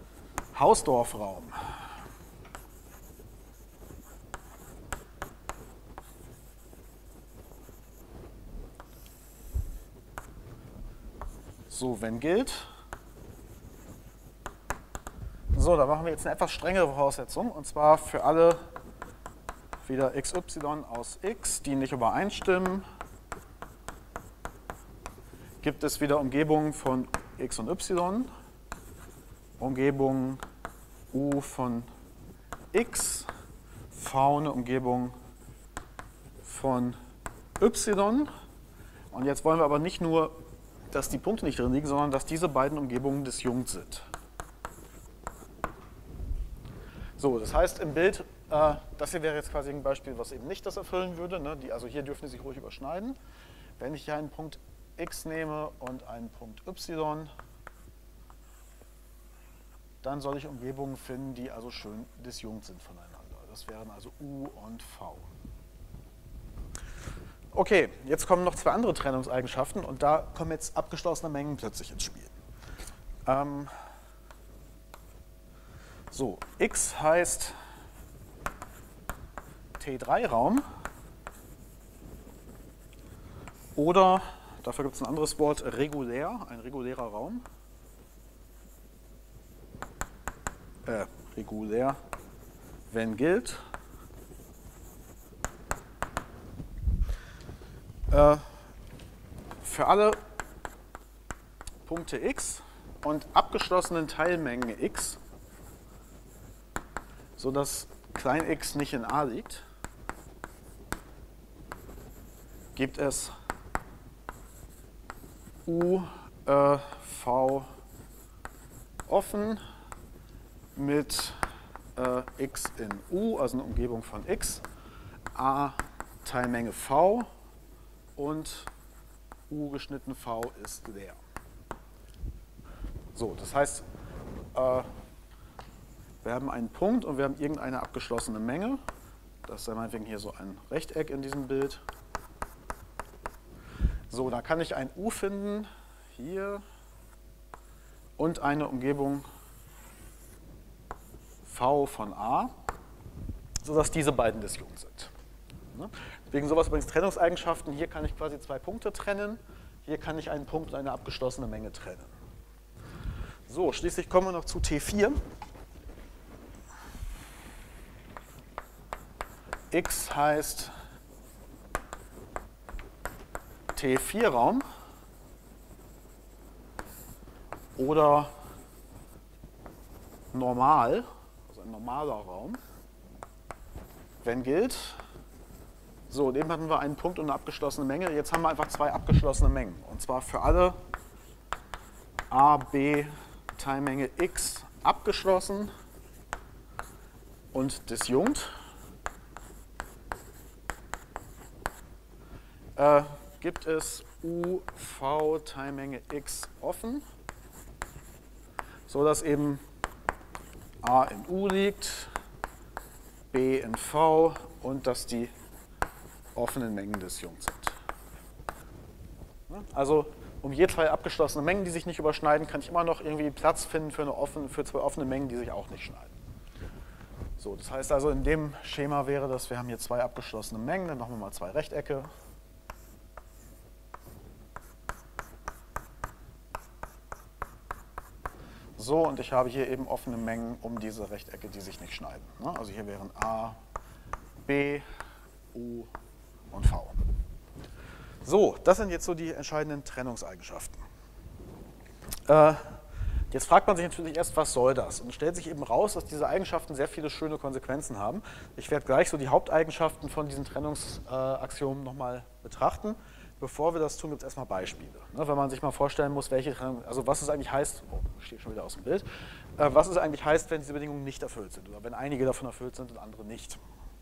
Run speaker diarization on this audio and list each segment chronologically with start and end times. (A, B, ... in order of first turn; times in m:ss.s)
0:00.5-0:01.6 A
0:11.7-0:12.7 A
0:15.5-0:18.6 A
0:19.8-0:22.8 A
0:25.6-0:28.3 A
0:29.6-0:30.4 A
0:31.1-0:31.9 A
0:32.7-0:33.3 A
0:33.9-0:35.1 A
0:36.4-0:37.0 A
0:37.6-0:38.3 A
0:39.1-0:40.3 A
0:40.9-0:44.1 A
0:47.2-0:53.2 A
0:53.8-0:57.3 A
1:00.0-1:05.3 A
1:07.5-1:12.3 A
1:13.2-1:13.7 A
1:16.1-1:17.5 A
1:19.8-1:20.6 A
1:23.7-1:27.4 A
1:30.8-1:32.0 A
1:32.9-1:33.6 A
1:38.1-1:38.5 A
1:39.6-1:40.2 A
1:41.8-1:45.2 A
1:47.4-1:49.6 A
1:52.8-1:53.3 A
1:55.6-1:57.7 A
1:59.1-1:59.6 A
2:00.8-2:01.4 A
2:02.0-2:04.6 A
2:05.3-2:07.3 A
2:08.2-2:08.7 A
2:09.5-2:11.2 A
2:13.2-2:13.8 A
2:14.5-2:14.9 A
2:16.2-2:18.8 A
2:19.4-2:21.8 A
2:24.1-2:26.6 A
2:28.2-2:29.2 A
2:31.4-2:32.5 A
2:33.6-2:35.1 A
2:35.7-2:42.1 A
2:43.5-2:45.2 A
2:49.7-2:50.7 A
2:53.8-2:54.6 A
2:57.8-2:58.3 A
3:00.3-3:02.6 A
3:04.2-3:05.0 A
3:06.1-3:10.8 A
3:12.3-3:15.7 A
3:17.5-3:18.5 A
3:22.8-3:27.0 A
3:28.9-3:29.6 A
3:30.8-3:32.1 A
3:33.3-3:35.3 A
3:36.3-3:37.8 A
3:39.5-3:46.1 A
3:47.4-3:52.1 A
3:58.8-4:03.6 A
4:04.4-4:04.8 A
4:05.5-4:05.9 A
4:06.5-4:07.0 A
4:08.2-4:10.8 A
4:12.3-4:12.8 A
4:13.3-4:29.0 A
4:29.6-4:33.6 A